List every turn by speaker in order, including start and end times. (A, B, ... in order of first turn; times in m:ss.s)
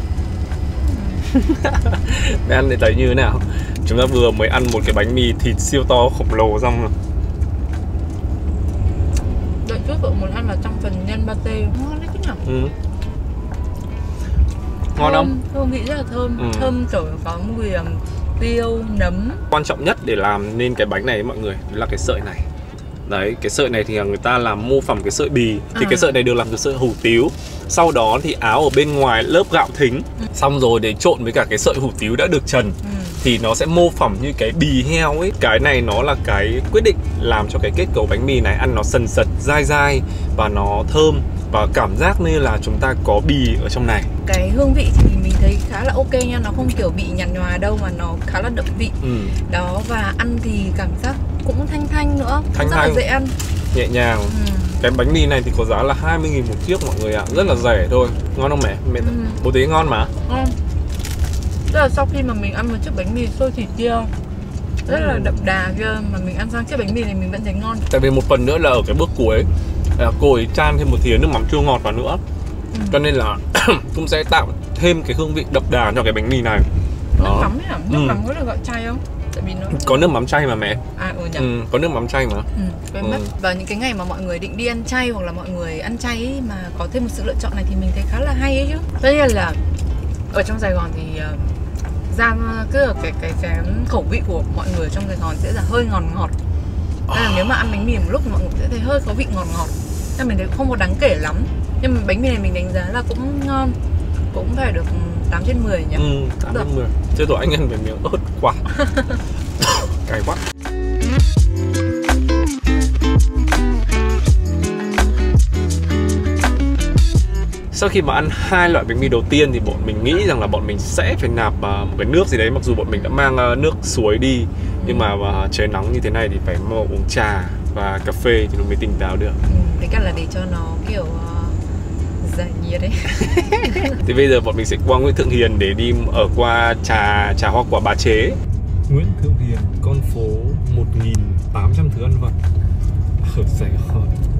0:00.8-0:01.2 A
0:01.3-0:06.9 B
0:09.6-0:12.4 A
0:12.4-0:12.7 B
0:15.0-0:15.3 B
0:15.0-0:19.4 A
0:16.4-0:16.7 B
0:19.5-0:22.5 B
0:23.1-0:44.1 B
0:25.7-0:26.2 A
0:32.8-0:33.2 A
0:44.2-0:53.4 A
0:49.0-0:49.4 B
0:52.5-0:53.0 B
0:53.7-1:00.1 B
0:54.3-0:54.8 A
0:57.3-0:57.7 A
0:59.0-0:59.4 A
1:00.3-1:00.6 A
1:01.7-1:04.1 A
1:04.9-1:05.4 B
1:04.9-1:07.9 A
1:07.9-1:12.2 B
1:12.7-1:13.0 A
1:12.9-1:16.7 B
1:17.2-1:20.1 A
1:17.2-1:18.2 B
1:19.7-1:20.8 B
1:21.0-1:21.5 A
1:21.4-1:22.5 B
1:22.6-1:29.6 A
1:23.0-1:23.3 B
1:30.3-1:31.6 A
1:32.1-1:36.4 A
1:37.1-1:37.5 B
1:37.1-1:43.8 A
1:44.3-1:46.7 A
1:46.0-1:48.7 B
1:48.8-1:49.2 A
1:49.6-1:50.4 B
1:57.7-2:09.4 B
2:04.8-2:05.1 A
2:09.5-2:11.6 A
2:12.2-2:14.0 A
2:13.2-2:22.4 B
2:23.2-2:24.2 B